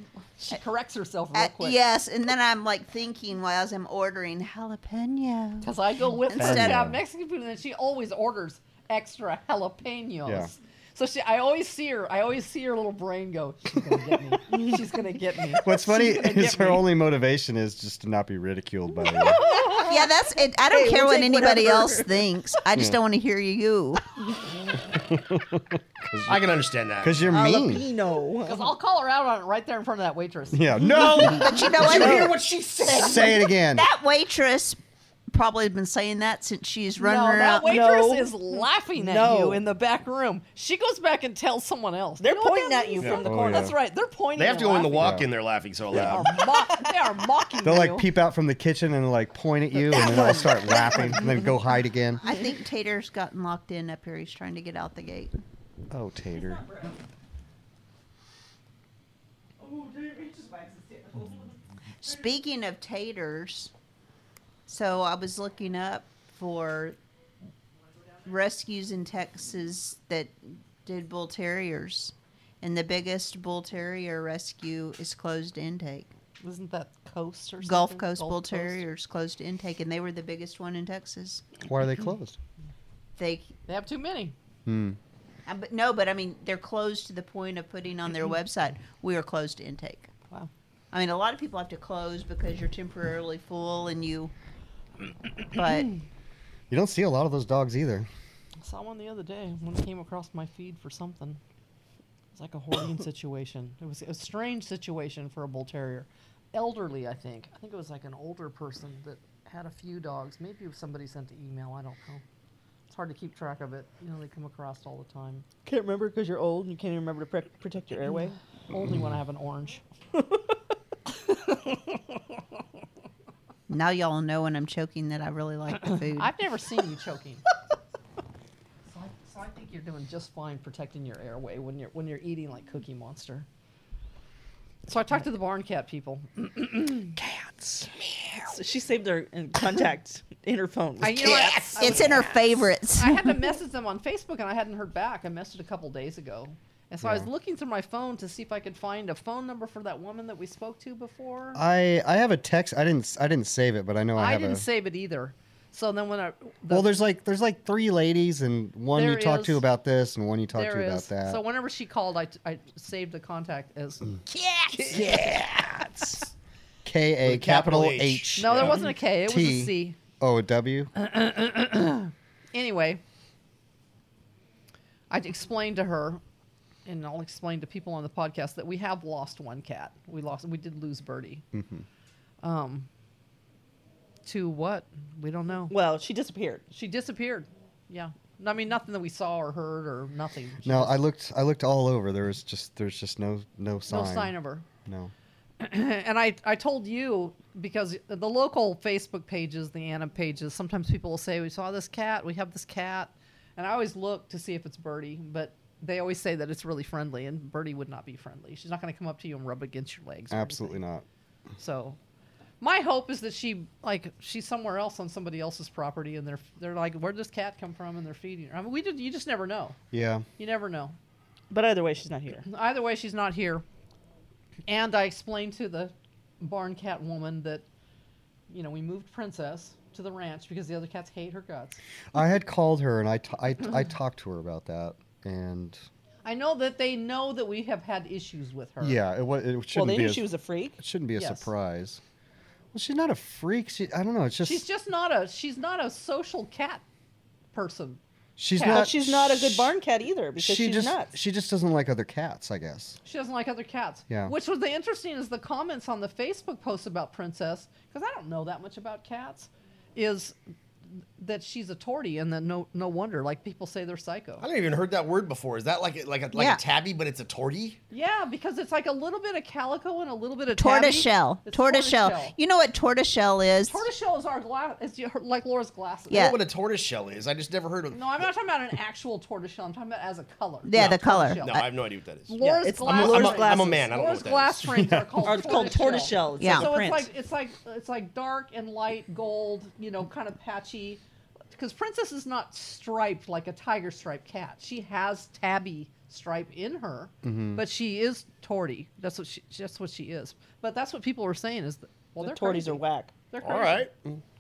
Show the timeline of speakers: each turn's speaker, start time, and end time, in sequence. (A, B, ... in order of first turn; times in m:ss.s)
0:00.4-0:01.8 A
0:01.3-0:05.7 B
0:05.6-0:16.9 A
0:06.3-0:06.9 B
0:06.3-0:07.0 C
0:10.2-0:10.5 C
0:15.6-0:19.4 C
0:19.1-0:19.9 A
0:19.2-0:22.3 D
0:19.7-0:24.1 B
0:24.9-0:26.4 C
0:26.3-0:27.4 E
0:27.0-0:27.8 C
0:27.3-0:28.7 D
0:28.4-0:31.6 A
0:30.5-0:32.2 C
0:31.2-0:34.8 B
0:31.7-0:33.4 E
0:31.8-0:32.4 D
0:32.9-0:33.9 C
0:35.3-0:37.8 B
0:37.0-0:45.2 A
0:37.6-0:39.6 D
0:42.2-0:43.7 D
0:43.0-0:43.3 E
0:43.2-0:43.8 C
0:44.4-0:46.5 E
0:45.0-0:45.3 C
0:45.9-0:46.2 C
0:46.0-0:48.1 A
0:46.4-0:47.0 D
0:47.6-0:52.2 C
0:49.8-0:51.3 D
0:52.2-0:55.3 B
0:55.9-0:56.6 C
0:56.3-0:57.0 D
0:59.6-1:01.6 D
1:02.0-1:03.7 B
1:04.7-1:07.0 B
1:08.3-1:16.1 B
1:16.4-1:18.8 A
1:17.6-1:21.5 B
1:21.6-1:22.4 C
1:23.2-1:23.5 B
1:23.7-1:24.4 A
1:24.7-1:25.0 C
1:25.5-1:30.1 B
1:30.9-1:34.3 B
1:35.5-1:36.0 B
1:36.7-1:38.1 C
1:38.6-1:41.4 A
1:42.3-1:52.2 A
1:52.9-1:55.4 A
1:55.7-1:58.4 D
1:58.7-1:59.8 A
2:00.2-2:00.4 D
2:03.7-2:06.3 B
2:06.2-2:07.4 A
2:08.9-2:13.5 A
2:14.9-2:17.2 A
2:18.4-2:21.5 D
2:21.0-2:22.3 A
2:21.2-2:22.0 E
2:21.8-2:23.4 B
2:23.0-2:31.6 A
2:27.0-2:27.3 C
2:31.6-2:34.6 C
2:34.2-2:36.9 A
2:36.7-2:41.4 C
2:38.9-2:39.6 A
2:40.5-2:44.2 A
2:44.7-2:45.8 E
2:45.0-2:45.4 C
2:46.8-2:50.9 C
2:47.2-2:48.9 E
2:48.4-2:50.0 A
2:51.0-2:53.0 A
2:55.1-2:56.2 A
2:56.8-3:01.4 A
3:01.5-3:01.9 C
3:02.4-3:02.9 A
3:04.2-3:05.7 A
3:05.7-3:06.6 D
3:06.7-3:11.0 A
3:10.6-3:14.3 C
3:13.9-3:14.7 A
3:14.9-3:15.1 C
3:15.6-3:30.8 A
3:30.3-3:31.0 C
3:31.6-3:32.0 A
3:32.6-3:39.8 A
3:39.9-3:40.3 C
3:40.4-3:41.0 A
3:41.5-3:42.4 D
3:42.5-3:43.6 A
3:44.7-3:47.6 A
3:48.5-3:51.8 A
3:52.1-3:55.8 C
3:56.2-3:59.0 A
3:58.8-4:02.0 C
3:59.7-4:00.8 D
4:01.2-4:01.5 A
4:02.7-4:04.6 C
4:04.4-4:06.8 A
4:07.5-4:08.0 A
4:08.4-4:09.7 C
4:08.5-4:08.9 A
4:08.6-4:11.1 D
4:10.4-4:13.0 C
4:13.0-4:20.4 A
4:14.1-4:14.3 C
4:21.2-4:24.4 A
4:24.4-4:27.8 E
4:26.3-4:26.6 B
4:27.9-4:32.4 A
4:30.6-4:33.8 B
4:33.7-4:36.3 A
4:36.1-4:36.4 B
4:36.1-4:38.3 E
4:37.9-4:41.7 A
4:40.6-4:41.6 B
4:40.8-4:44.8 E
4:42.3-4:51.0 A
4:42.4-4:43.9 D
4:44.7-4:45.3 C
4:45.2-4:47.1 D
4:46.4-4:46.7 B
4:51.5-5:03.9 A
4:57.2-4:57.6 C
5:02.2-5:03.1 D
5:03.4-5:04.2 E